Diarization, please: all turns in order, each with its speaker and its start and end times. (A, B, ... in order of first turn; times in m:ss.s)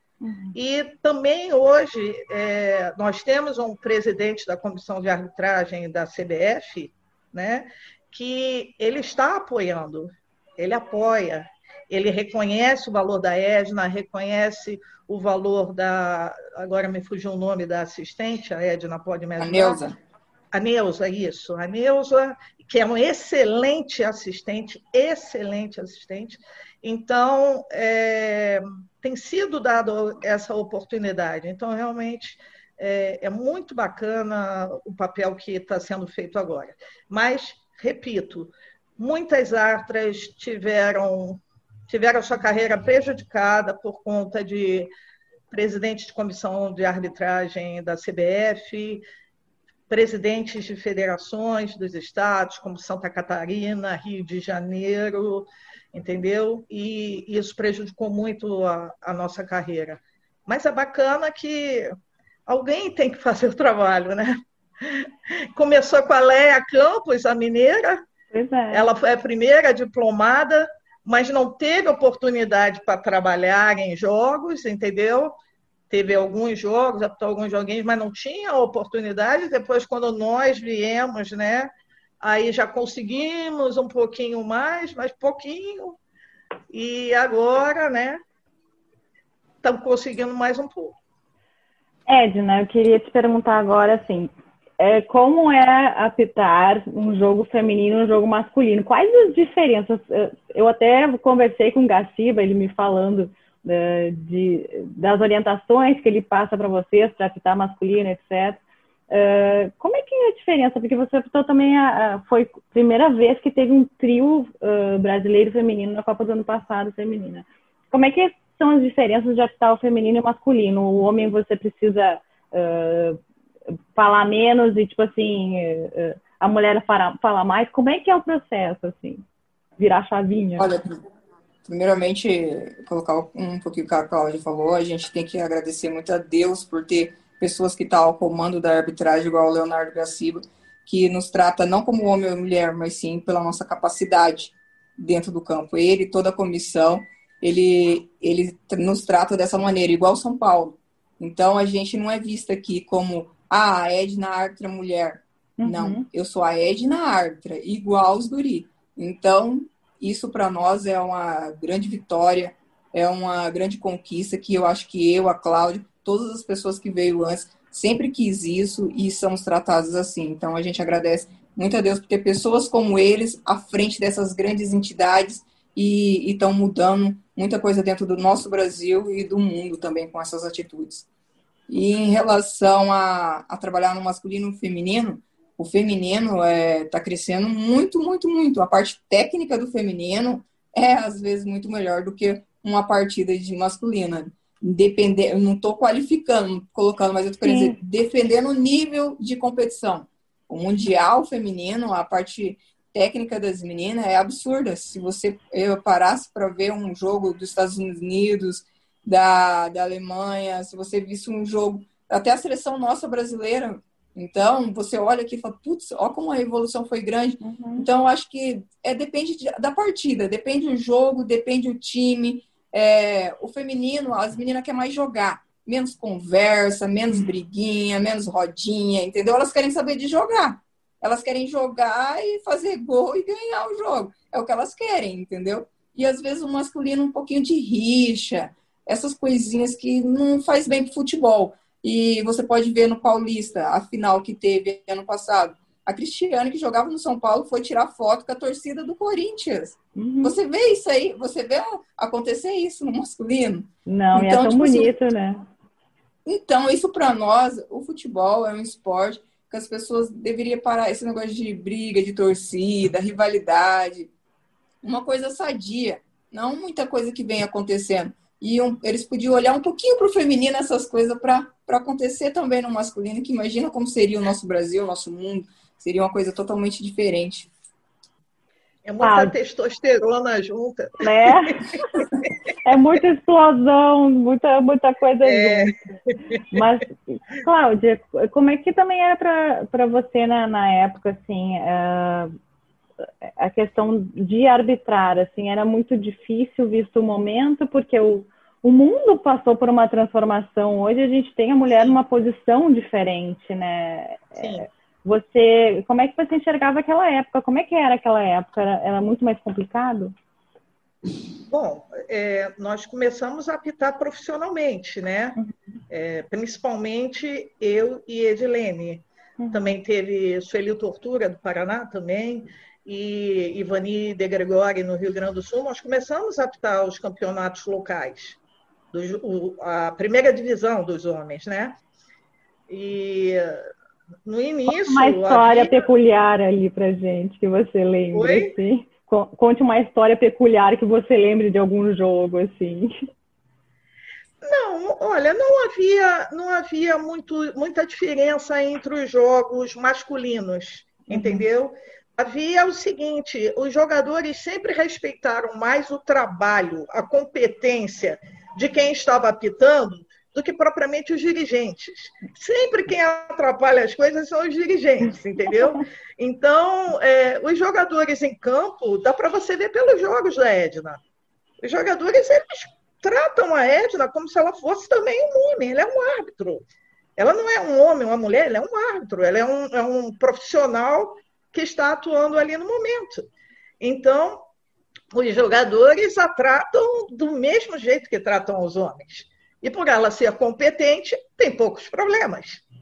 0:00.2-0:00.6 A
0:00.5-0:19.8 B
0:19.4-0:20.0 C
0:20.5-0:44.9 B
0:45.5-0:49.0 B
0:49.9-1:01.9 B
1:02.5-1:08.0 B
1:08.3-1:08.8 A
1:08.7-1:15.3 B
1:15.9-1:21.7 B
1:22.2-1:26.0 B
1:26.7-1:28.2 B
1:29.6-1:31.0 B
1:32.1-2:03.2 A
2:03.9-2:09.2 A
2:09.8-2:10.7 A
2:10.6-2:11.0 C
2:11.6-3:01.0 C
2:35.6-2:36.1 A
3:01.7-4:14.9 C
3:17.4-3:17.8 A
3:37.4-3:37.9 A
4:10.0-4:10.4 A
4:13.8-4:15.4 A
4:16.2-4:24.1 C
4:24.8-4:37.5 C
4:38.8-4:41.6 B
4:39.0-4:39.3 A
4:41.0-4:41.8 A
4:42.6-4:45.8 A
4:45.2-4:45.7 B
4:46.5-4:52.3 A
4:53.2-5:10.1 A
5:04.4-5:04.6 B
5:11.5-5:15.4 B
5:15.9-5:28.4 B
5:19.4-5:19.7 A
5:28.9-5:31.8 B
5:32.7-5:33.6 B
5:34.2-5:35.7 B
5:34.6-5:42.9 A
5:38.1-5:38.5 B
5:44.4-6:11.0 B
5:51.1-5:51.4 A
6:11.6-6:16.6 B
6:17.2-6:23.2 B
6:23.8-6:24.4 B
6:25.1-6:32.6 B